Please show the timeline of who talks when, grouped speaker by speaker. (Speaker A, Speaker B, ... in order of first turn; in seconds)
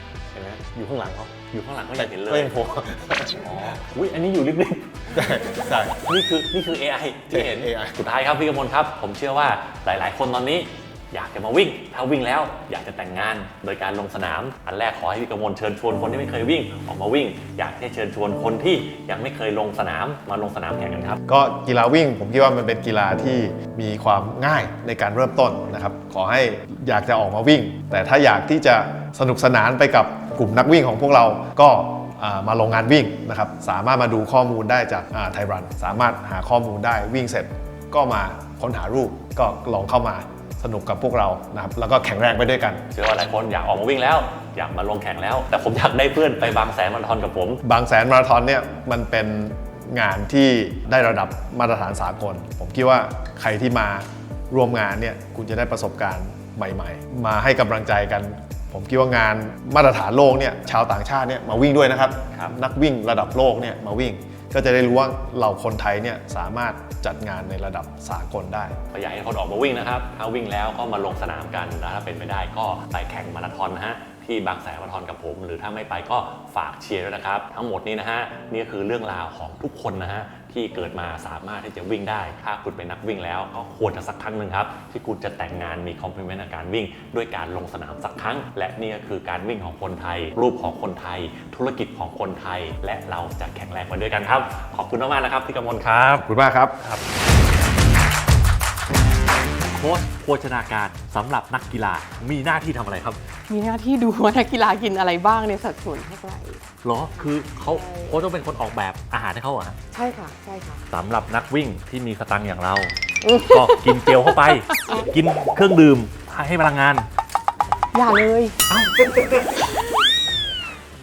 Speaker A: 0.3-1.3, 2.0-3.8, 5.1-6.0, 7.3-8.0, 21.3-42.8, 47.6-68.8, 96.2-96.8
Speaker B: 1.3-2.6, 3.4-21.2, 42.9-47.6, 68.9-96.3, 99.7-103.2, 106.8-109.8, 110.9-117.1, 118.7-119.6
Speaker C: 103.5-106.6, 107.7-108.1, 109.9-110.8, 113.2-115.1, 117.9-118.6